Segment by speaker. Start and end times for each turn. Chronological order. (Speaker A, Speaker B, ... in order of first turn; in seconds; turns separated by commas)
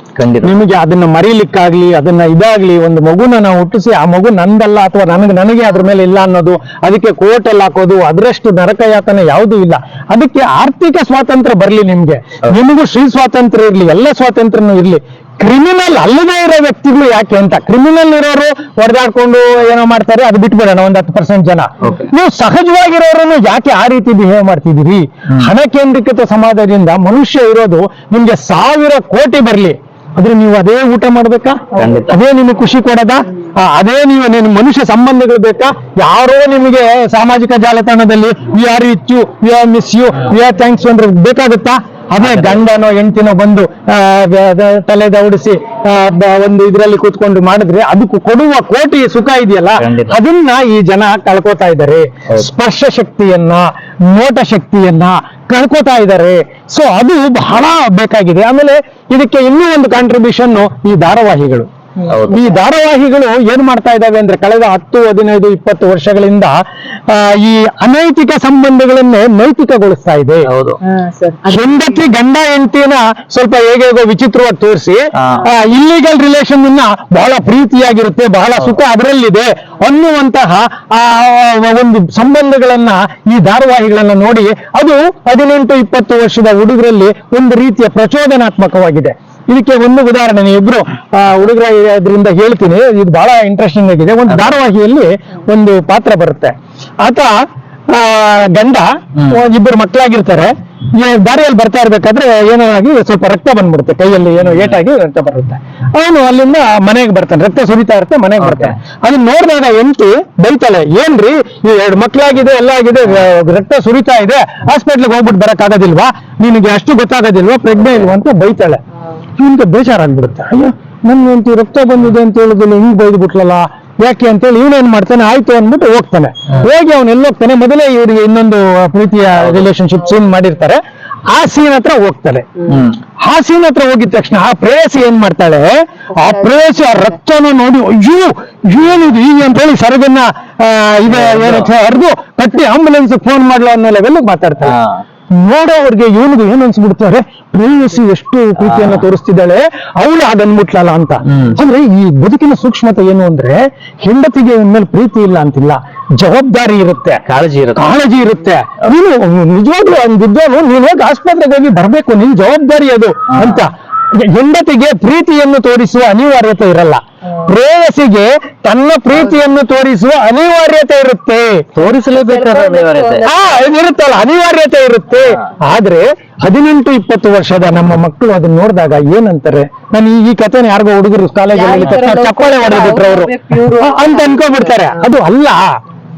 Speaker A: 0.2-0.6, Speaker B: 0.4-61.7, Speaker A: 21.8-22.1, Speaker A: 31.8-32.2, Speaker A: 42.2-42.6, Speaker A: 49.8-50.2, Speaker C: 62.0-62.6, Speaker A: 62.1-62.4, Speaker B: 62.3-66.6, Speaker B: 67.1-70.5, Speaker A: 70.5-70.8, Speaker C: 70.8-72.0, Speaker B: 71.5-96.5, Speaker A: 75.2-75.5, Speaker A: 94.3-94.6, Speaker B: 97.0-97.3, Speaker B: 97.9-118.8, Speaker A: 99.2-99.4, Speaker A: 104.4-104.8, Speaker A: 108.4-108.7, Speaker B: 119.4-132.5, Speaker A: 129.4-129.7, Speaker A: 132.7-133.0, Speaker B: 133.2-144.8, Speaker C: 136.2-137.0, Speaker A: 141.1-141.7, Speaker A: 144.6-145.0, Speaker B: 145.4-157.2, Speaker A: 148.6-149.1, Speaker A: 151.2-151.6, Speaker A: 157.3-158.0, Speaker B: 157.8-171.7, Speaker A: 163.3-163.7, Speaker A: 171.8-173.3, Speaker C: 172.0-173.6, Speaker B: 173.3-185.6, Speaker A: 175.2-175.4, Speaker C: 181.5-185.1